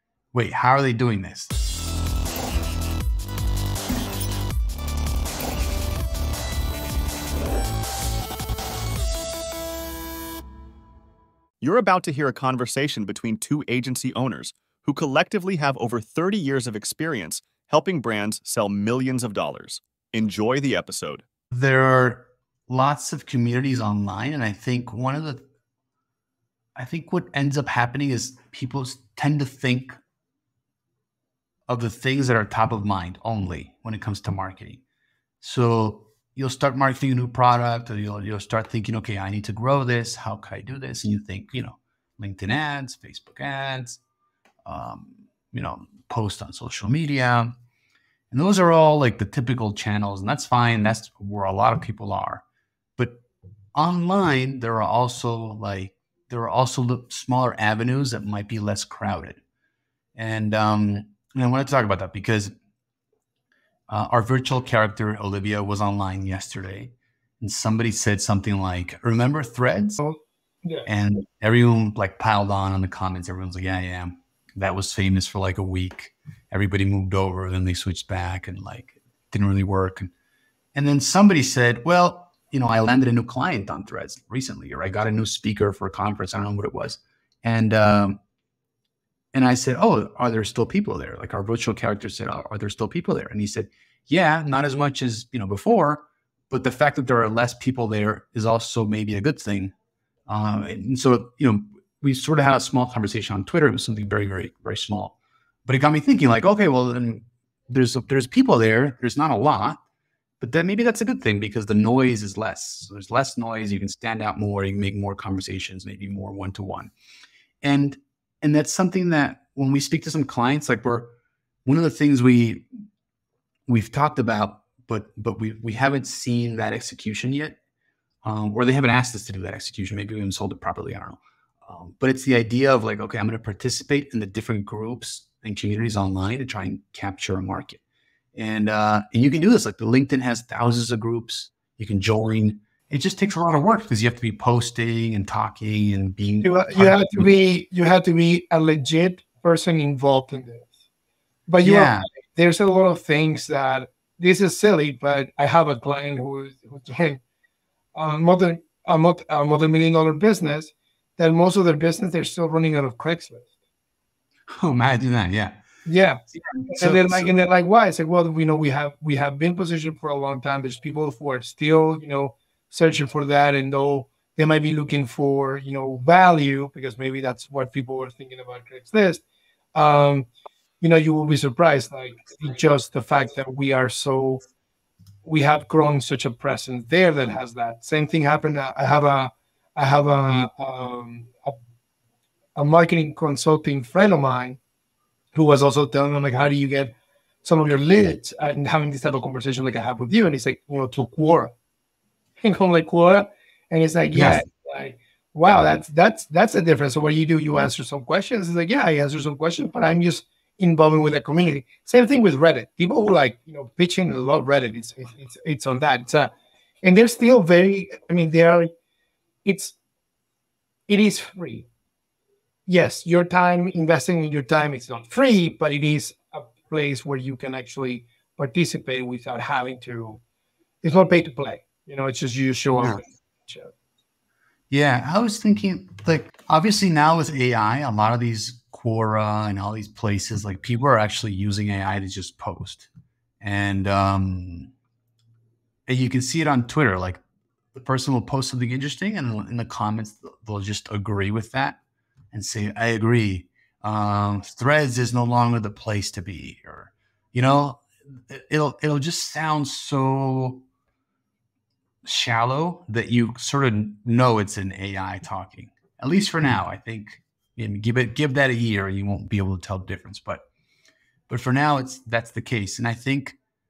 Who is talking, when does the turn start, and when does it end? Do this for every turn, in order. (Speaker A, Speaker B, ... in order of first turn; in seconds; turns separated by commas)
Speaker A: 0.3-1.6, Speaker B: 11.6-21.2, Speaker A: 21.5-25.4, Speaker A: 26.8-29.9, Speaker A: 31.7-34.8, Speaker A: 35.4-44.0, Speaker A: 44.6-47.5, Speaker A: 48.3-52.4, Speaker A: 53.0-53.2, Speaker A: 53.7-59.4, Speaker A: 60.1-62.5, Speaker A: 63.9-70.0, Speaker C: 70.0-70.9, Speaker A: 70.8-80.1, Speaker A: 80.7-88.2, Speaker A: 89.3-99.7, Speaker A: 100.3-109.8, Speaker A: 110.4-116.9, Speaker A: 117.6-121.1, Speaker A: 121.6-122.7, Speaker A: 123.7-127.6, Speaker A: 128.2-137.8, Speaker A: 138.3-147.3, Speaker C: 146.4-150.7, Speaker C: 151.5-157.2, Speaker A: 151.6-152.1, Speaker C: 157.9-163.5, Speaker A: 164.5-165.6, Speaker C: 165.8-179.2, Speaker A: 166.3-167.3, Speaker C: 179.7-180.3, Speaker C: 180.8-184.4, Speaker C: 185.2-191.6, Speaker C: 192.5-194.6, Speaker C: 195.3-201.5, Speaker C: 202.4-218.7, Speaker A: 204.1-204.4, Speaker C: 219.4-219.8, Speaker C: 220.9-221.7, Speaker C: 222.7-230.2, Speaker C: 230.8-233.7, Speaker A: 234.7-242.9, Speaker A: 243.4-244.7, Speaker A: 245.9-247.2, Speaker A: 247.7-251.8, Speaker A: 252.3-260.6, Speaker A: 262.0-270.4, Speaker A: 271.3-273.4